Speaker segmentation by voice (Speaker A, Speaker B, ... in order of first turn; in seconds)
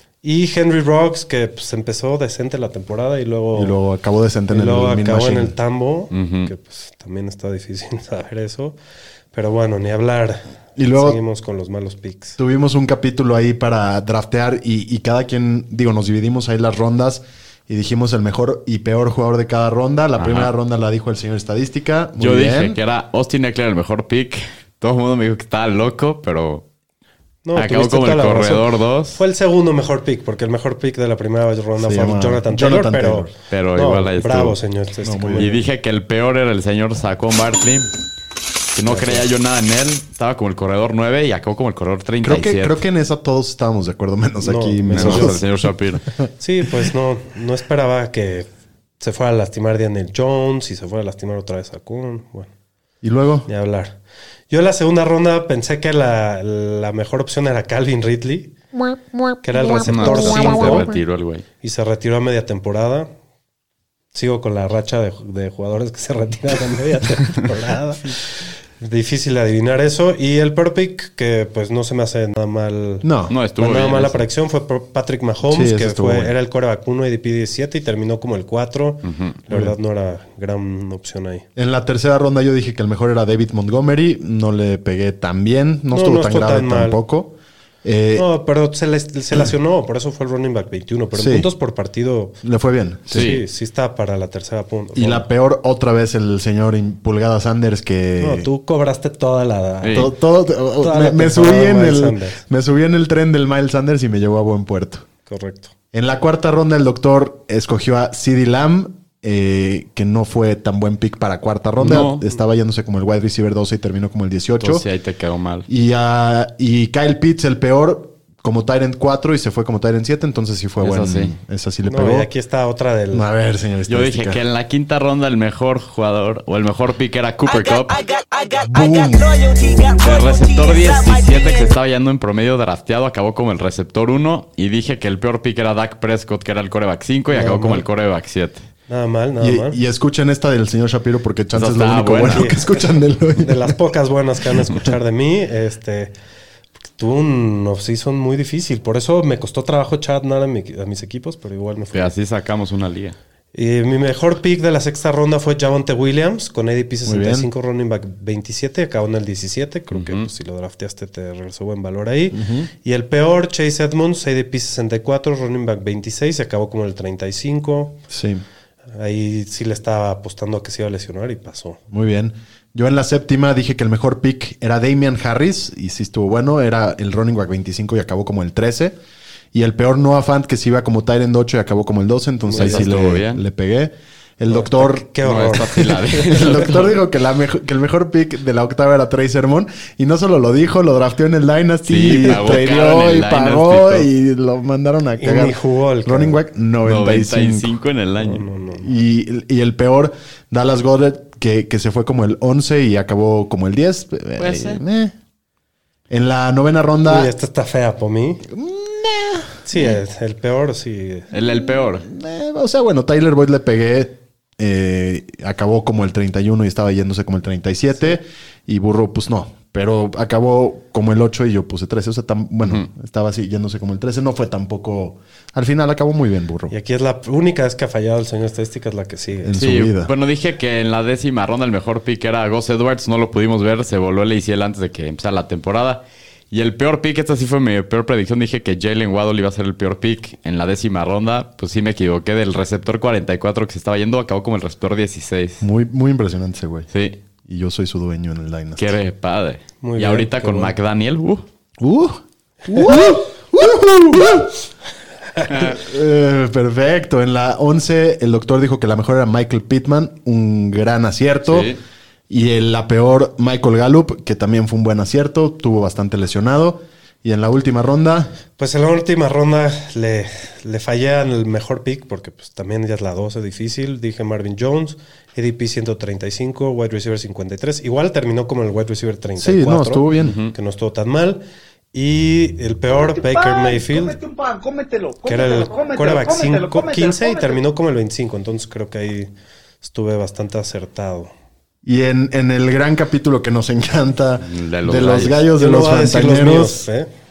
Speaker A: 0.2-3.8, 4.5-8.8, 9.3-12.4, 27.4-35.6, 38.9-39.2, 44.4-45.4, 46.4-48.5, 49.0-52.5, 53.5-54.0, 54.5-58.5, 59.3-61.0, 61.6-63.1, 64.1-81.4, 85.9-87.0, 88.2-92.3, 93.1-95.2, 98.2-100.1, 100.8-102.4, 105.2-105.7, 121.8-123.2, 137.3-137.9, 138.9-139.8, 142.3-142.6, 143.4-146.1, 147.0-152.1, 153.5-168.0, 168.9-171.8, 182.4-182.9, 184.5-186.5, 195.2-196.4, 198.2-198.9, 207.0-208.5, 209.7-211.3, 226.7-229.6, 249.8-250.7, 268.6-284.2, 285.2-289.3, 289.8-291.3, 295.5-297.1
Speaker B: 3.5-5.5, 10.8-11.2, 12.4-22.8, 31.8-33.3, 35.0-35.6, 42.2-45.5, 53.0-53.5, 73.0-73.3, 75.5-76.3, 81.5-88.3, 91.1-91.5, 92.4-93.4, 94.9-98.5, 99.9-105.0, 105.9-114.8, 115.7-122.3, 123.1-124.4, 128.5-129.9, 139.4-143.8, 157.1-157.5, 162.3-162.7, 168.1-168.4, 171.9-178.9, 179.5-185.0, 186.2-197.7, 198.8-205.1, 206.1-207.3, 208.5-209.6, 211.7-226.7, 229.4-230.1, 245.6-246.9, 247.5-248.9, 251.8-254.6, 255.5-261.7, 262.3-268.3, 279.4-280.4, 291.8-296.9
Speaker C: 6.1-6.5, 20.2-20.5, 22.2-26.6, 27.6-29.2, 33.5-34.6, 35.4-37.9, 38.7-42.8, 44.9-46.0, 59.6-61.4, 73.3-74.2, 79.0-79.4, 93.1-93.4, 99.8-100.1, 111.8-112.2, 114.6-115.7, 120.8-121.3, 123.9-128.1, 129.9-138.7, 141.5-142.5, 151.9-153.2, 159.9-160.3, 182.6-183.4, 185.2-187.0, 191.9-194.1, 196.8-198.4, 204.4-204.8, 211.3-212.1, 229.5-245.6, 246.9-247.2, 248.8-251.4, 261.4-261.8, 280.2-280.5, 294.4-295.4
Speaker D: 282.9-287.6